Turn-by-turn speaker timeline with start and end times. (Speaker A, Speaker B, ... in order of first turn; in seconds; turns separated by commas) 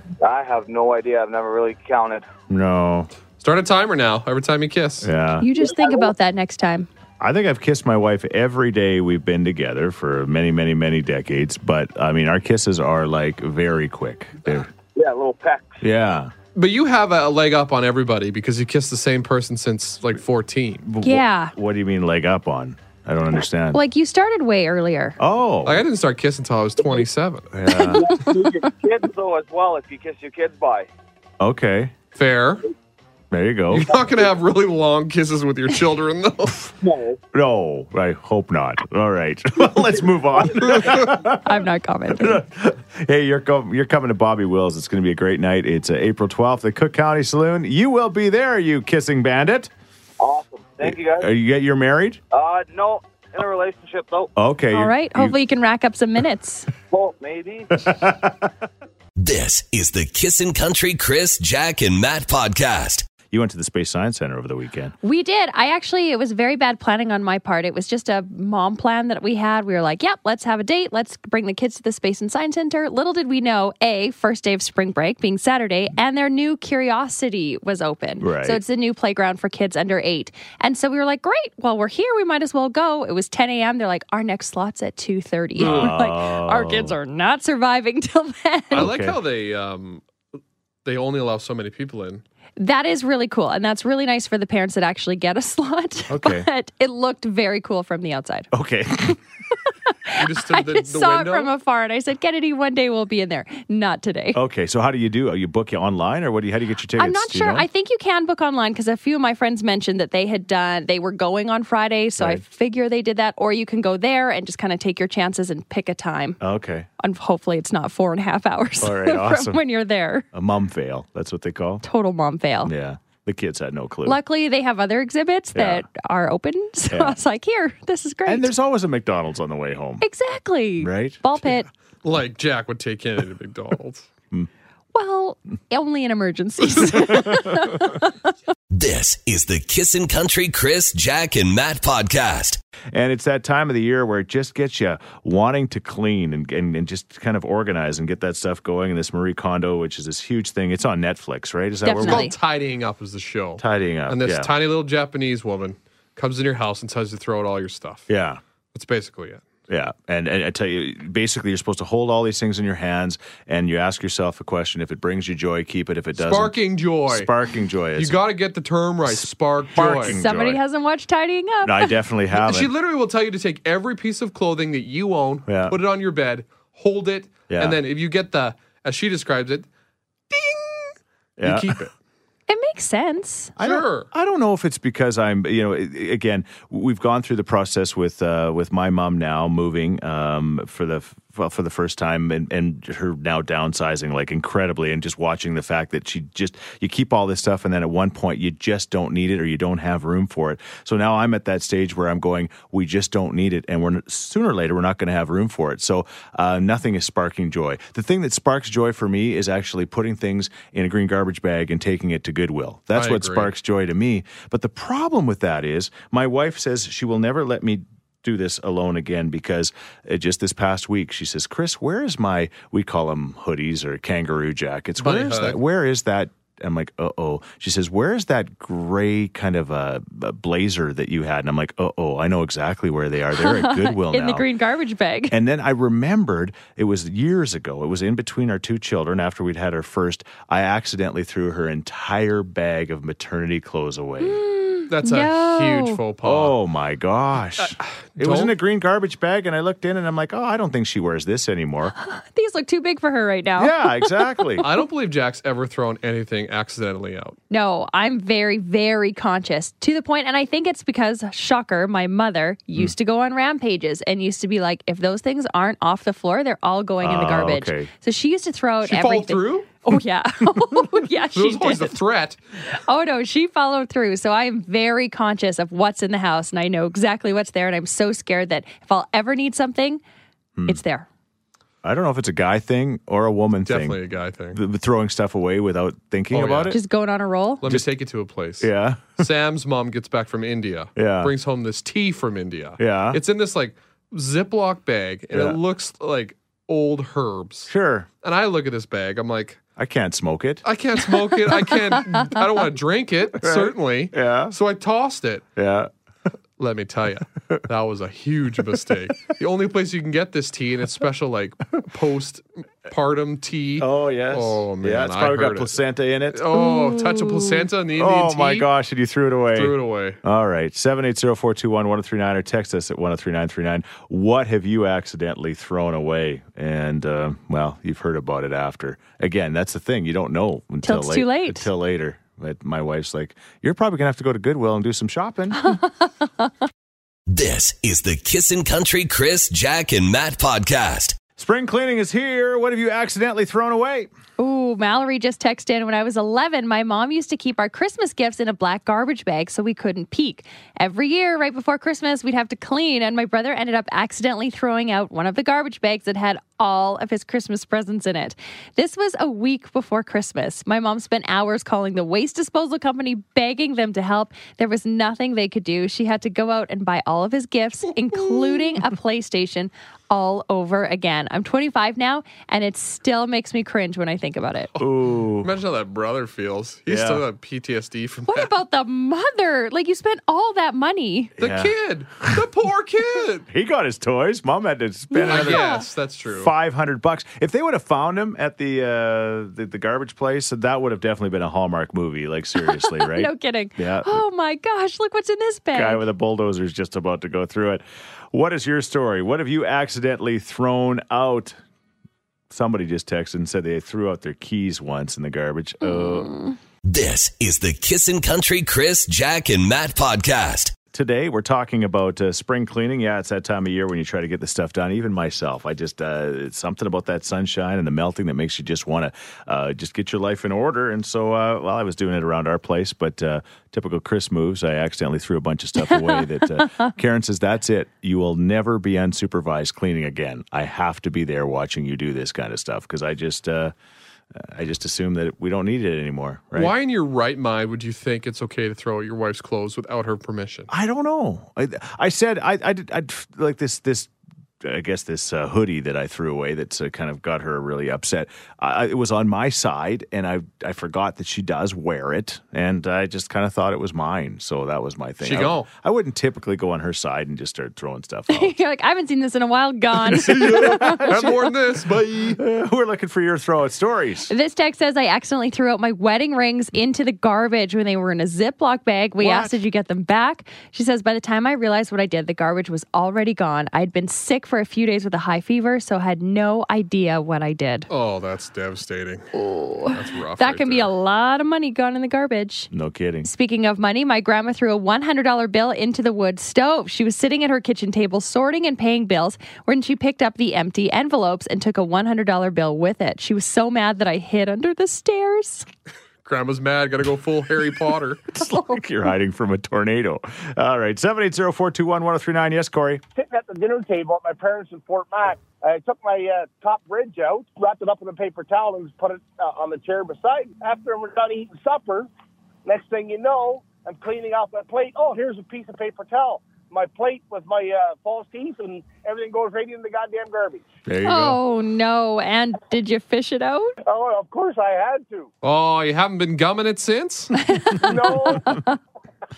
Speaker A: 0.2-2.3, Speaker B: 2.5-3.1, Speaker C: 3.4-5.1, Speaker B: 5.0-5.5, Speaker D: 5.4-6.9, Speaker A: 5.6-6.1, Speaker B: 7.2-14.7, Speaker A: 14.8-15.8, Speaker B: 15.8-16.3, Speaker C: 16.6-20.8, Speaker B: 20.8-23.8, Speaker D: 21.0-21.5, Speaker D: 23.7-25.2, Speaker B: 25.2-25.9, Speaker C: 25.6-27.5, Speaker A: 26.8-27.1, Speaker B: 27.5-28.1, Speaker A: 27.7-30.9, Speaker B: 31.4-31.9, Speaker C: 32.1-32.6, Speaker B: 33.3-33.9, Speaker C: 33.7-36.7, Speaker A: 36.8-37.2, Speaker B: 37.3-41.6, Speaker D: 41.3-42.4, Speaker B: 42.2-49.7, Speaker A: 50.2-51.3, Speaker B: 50.8-52.2, Speaker A: 52.3-54.3, Speaker B: 54.4-55.4, Speaker D: 54.7-56.7, Speaker A: 56.9-57.9, Speaker B: 57.9-58.4, Speaker E: 59.2-63.1, Speaker B: 63.3-65.0, Speaker D: 65.0-88.9, Speaker B: 78.2-78.6, Speaker C: 85.6-85.9, Speaker B: 85.6-87.0, Speaker B: 88.7-89.2, Speaker C: 88.7-90.0, Speaker C: 90.8-92.2, Speaker D: 92.6-98.5, Speaker B: 96.1-96.5, Speaker B: 98.5-99.2, Speaker D: 99.9-104.4, Speaker C: 100.1-101.5, Speaker B: 104.3-107.7, Speaker D: 107.0-116.4, Speaker B: 116.4-116.9, Speaker D: 117.0-120.2, Speaker B: 118.8-119.6, Speaker B: 120.3-121.8, Speaker D: 121.8-122.7, Speaker B: 122.6-124.2, Speaker D: 124.0-128.5, Speaker B: 125.5-125.9, Speaker B: 126.9-127.2, Speaker B: 128.3-130.1, Speaker D: 130.0-131.7, Speaker B: 130.8-131.2, Speaker C: 132.0-134.1, Speaker D: 134.9-138.1, Speaker E: 138.7-142.6, Speaker B: 142.9-152.3, Speaker D: 151.8-152.3, Speaker C: 151.9-158.1, Speaker B: 153.6-154.5, Speaker B: 158.1-158.4, Speaker C: 158.7-159.4, Speaker B: 159.7-168.2, Speaker C: 166.2-167.3, Speaker C: 167.9-170.2, Speaker B: 169.1-170.6, Speaker D: 170.0-172.0, Speaker B: 171.6-172.7, Speaker C: 172.3-179.7, Speaker B: 175.5-175.8, Speaker B: 177.5-177.8, Speaker C: 180.3-181.9, Speaker B: 181.4-181.8, Speaker D: 182.5-183.5, Speaker B: 183.6-234.5, Speaker C: 183.6-184.1, Speaker C: 212.9-213.5, Speaker C: 225.0-225.6, Speaker D: 233.3-235.3, Speaker B: 235.3-244.4, Speaker D: 244.2-246.0, Speaker C: 244.9-246.6, Speaker B: 246.2-251.9, Speaker C: 247.7-248.6, Speaker D: 252.0-254.5, Speaker B: 253.6-254.7, Speaker C: 254.6-257.4, Speaker D: 257.5-272.0, Speaker B: 267.0-267.9, Speaker C: 268.9-269.7, Speaker C: 271.3-272.4, Speaker D: 272.7-280.0, Speaker B: 280.6-280.8, Speaker D: 280.7-281.1, Speaker B: 281.8-284.0, Speaker C: 283.6-284.6, Speaker B: 284.5-286.8, Speaker C: 286.3-286.8, Speaker D: 286.7-287.6, Speaker C: 287.6-297.7, Speaker B: 288.6-289.2, Speaker B: 291.0-291.3, Speaker B: 292.8-293.2, Speaker B: 295.3-295.6, Speaker B: 297.7-298.1, Speaker C: 298.2-299.6, Speaker B: 299.8-300.6, Speaker C: 300.6-305.4, Speaker B: 303.4-304.6, Speaker B: 305.6-305.9, Speaker C: 306.6-315.8, Speaker B: 313.8-316.5, Speaker C: 316.3-318.7, Speaker D: 316.6-317.6, Speaker B: 317.9-335.8, Speaker C: 319.5-320.2, Speaker D: 330.8-331.7, Speaker E: 337.3-341.2, Speaker B: 341.4-344.1, Speaker D: 344.4-374.7, Speaker C: 368.2-368.8, Speaker B: 374.8-375.5, Speaker C: 375.4-378.5, Speaker B: 376.9-377.2, Speaker D: 378.3-381.3, Speaker B: 381.4-382.4, Speaker C: 381.4-383.4, Speaker B: 383.5-394.2, Speaker D: 385.1-385.9, Speaker C: 385.2-386.5, Speaker D: 392.6-396.1, Speaker B: 395.7-401.6, Speaker B: 402.5-406.4, Speaker D: 405.8-406.6, Speaker E: 406.8-410.8, Speaker B: 410.9-433.7, Speaker D: 425.9-426.9, Speaker B: 434.3-436.7, Speaker C: 436.6-440.7, Speaker B: 440.7-444.1, Speaker B: 444.6-458.6, Speaker C: 455.2-455.7, Speaker D: 458.3-461.3, Speaker C: 460.0-462.4, Speaker B: 460.4-461.4, Speaker B: 462.4-464.3, Speaker D: 464.3-477.9, Speaker C: 477.9-479.3, Speaker D: 479.3-482.7, Speaker C: 479.9-480.9, Speaker B: 482.7-483.3, Speaker D: 483.2-495.7, Speaker C: 496.2-498.2, Speaker B: 498.3-503.0, Speaker D: 498.5-498.8, Speaker F: 503.1-512.1, Speaker F: 512.6-520.7, Speaker B: 520.9-521.4, Speaker D: 521.0-523.7, Speaker F: 523.9-525.3, Speaker C: 525.4-527.3, Speaker D: 527.4-528.8, Speaker F: 527.8-528.6